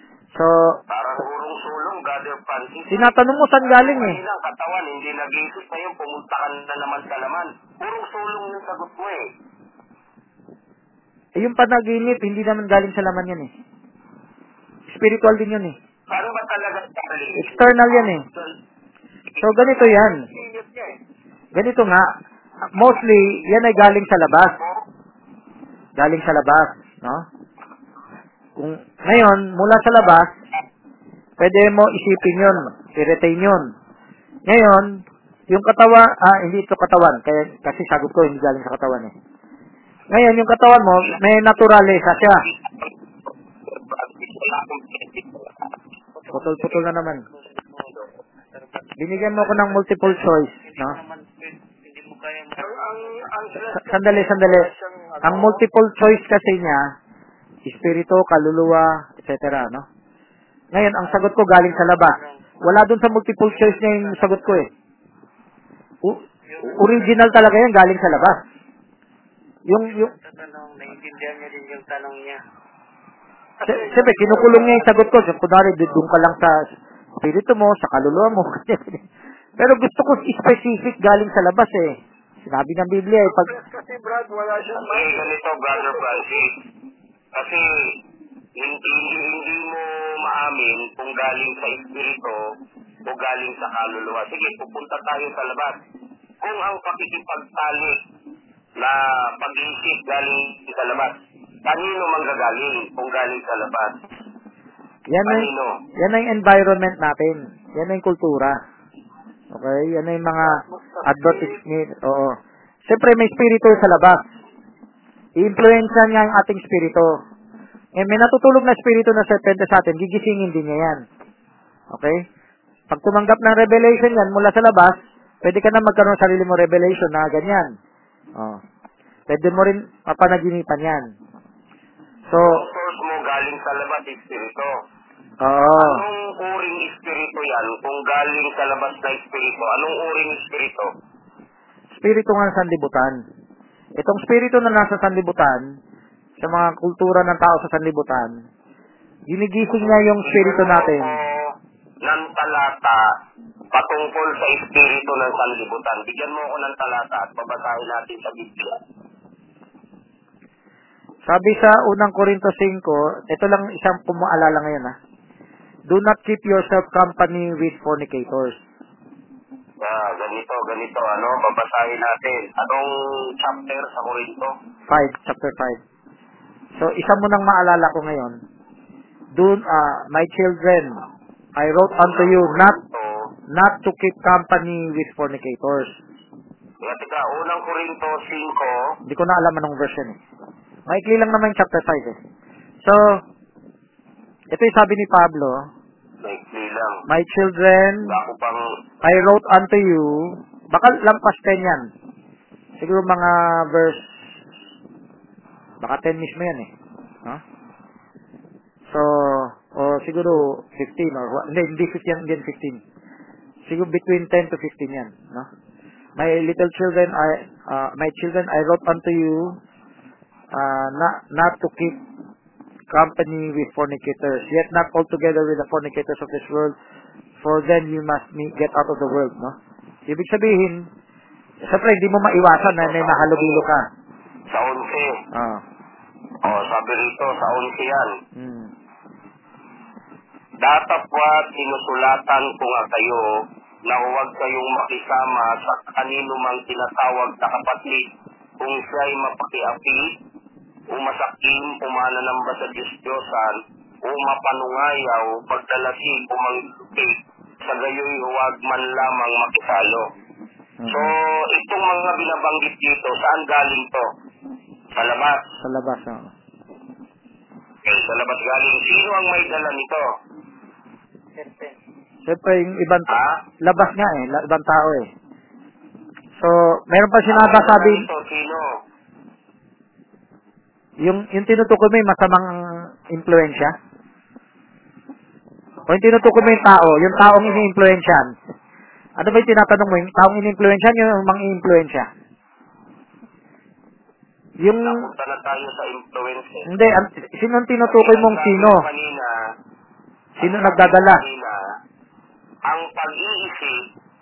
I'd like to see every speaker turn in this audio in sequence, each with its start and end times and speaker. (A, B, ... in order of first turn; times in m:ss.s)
0:00.3-0:00.8 A
0:00.9-0:09.3 B
0:02.9-0:04.2 A
0:11.4-0:13.5 A
0:14.9-0:15.8 A
0:16.1-0:18.6 B
0:17.4-0:18.2 A
0:19.4-0:19.6 B
0:19.4-0:20.3 A
0:20.2-0:21.0 C
0:21.5-0:22.0 A
0:22.7-0:24.6 A
0:24.6-0:24.8 B
0:26.0-0:27.2 A
0:28.6-0:30.3 A
0:31.4-0:33.7 A
0:34.5-0:35.0 A
0:35.5-0:39.1 A
0:40.1-0:42.5 A
0:42.4-0:42.9 B
0:43.9-0:45.4 B
0:46.2-0:53.3 D
0:46.3-0:47.2 A
0:49.0-0:51.0 A
0:52.6-0:55.6 C
0:53.8-0:54.7 A
0:55.2-0:56.8 A
0:57.7-0:59.9 A
1:00.7-1:04.7 A
1:01.0-1:01.3 D
1:01.9-1:02.4 D
1:03.5-1:04.6 D
1:06.0-1:08.4 A
1:06.5-1:07.3 D
1:09.7-1:10.1 A
1:09.8-1:12.4 D
1:13.6-1:14.9 C
1:13.7-1:16.5 A
1:17.2-1:19.0 A
1:19.6-1:23.5 A
1:23.2-1:26.5 C
1:24.8-1:26.5 B
1:27.3-1:28.0 B
1:28.6-1:32.4 B
1:33.1-1:35.8 B
1:36.4-1:38.0 B
1:38.8-1:44.0 B
1:45.1-1:48.6 A
1:45.2-1:45.8 B
1:49.5-1:52.3 A
1:50.4-1:51.6 C
1:52.9-1:54.2 A
1:55.4-1:57.1 A
1:58.0-2:01.0 A
2:01.9-2:02.3 A
2:02.9-2:07.7 A
2:09.3-2:11.1 A
2:12.3-2:12.6 A
2:12.4-2:14.7 B
2:15.4-2:16.0 A
2:15.8-2:20.9 B
2:22.0-2:23.2 A
2:24.0-2:25.6 A
2:26.4-2:28.3 A
2:29.3-2:31.1 A
2:29.8-2:31.5 B
2:32.0-2:33.0 B
2:33.7-2:38.8 B
2:41.3-2:45.0 A
2:45.9-2:48.6 A
2:49.8-2:54.5 B
2:54.9-2:55.8 A
2:56.8-2:58.4 A
2:59.4-3:01.0 A
3:01.6-3:02.8 A
3:02.0-3:03.3 B
3:03.5-3:05.9 A
3:06.8-3:09.0 B
3:09.1-3:10.2 A
3:10.9-3:12.2 A
3:12.8-3:13.2 A
3:14.5-3:15.7 A
3:16.2-3:17.0 B
3:17.1-3:18.2 A
3:18.1-3:18.6 B
3:19.0-3:21.8 A
3:22.8-3:24.0 A
3:25.8-3:26.7 A
3:28.9-3:32.8 A
3:33.7-3:35.5 A
3:36.2-3:39.6 A
3:40.5-3:42.0 A
3:42.9-3:46.8 A
3:47.4-3:49.6 A
3:50.1-3:50.9 A
3:51.6-3:53.8 A
3:52.5-3:53.7 B
3:54.5-3:55.2 B
3:55.3-3:55.6 A
3:56.4-3:58.2 B
3:58.4-3:58.7 A
4:00.6-4:08.1 B
4:08.6-4:10.1 B
4:10.9-4:20.0 B
4:20.8-4:21.1 A
4:20.9-4:24.1 B
4:24.9-4:25.4 B
4:25.6-4:26.3 A
4:27.8-4:30.0 B
4:31.4-4:31.8 D
4:32.2-4:35.1 A
4:33.1-4:33.4 B
4:36.4-4:38.1 A
4:37.3-4:38.7 B
4:41.0-4:43.8 A
4:45.9-4:48.3 A
4:46.3-4:47.6 B
4:49.2-4:52.1 A
4:54.6-4:55.1 A
4:54.8-4:56.7 B
4:56.7-4:58.8 A
4:57.8-4:59.3 B
5:00.4-5:01.2 A
5:00.4-5:01.6 B
5:02.7-5:03.8 B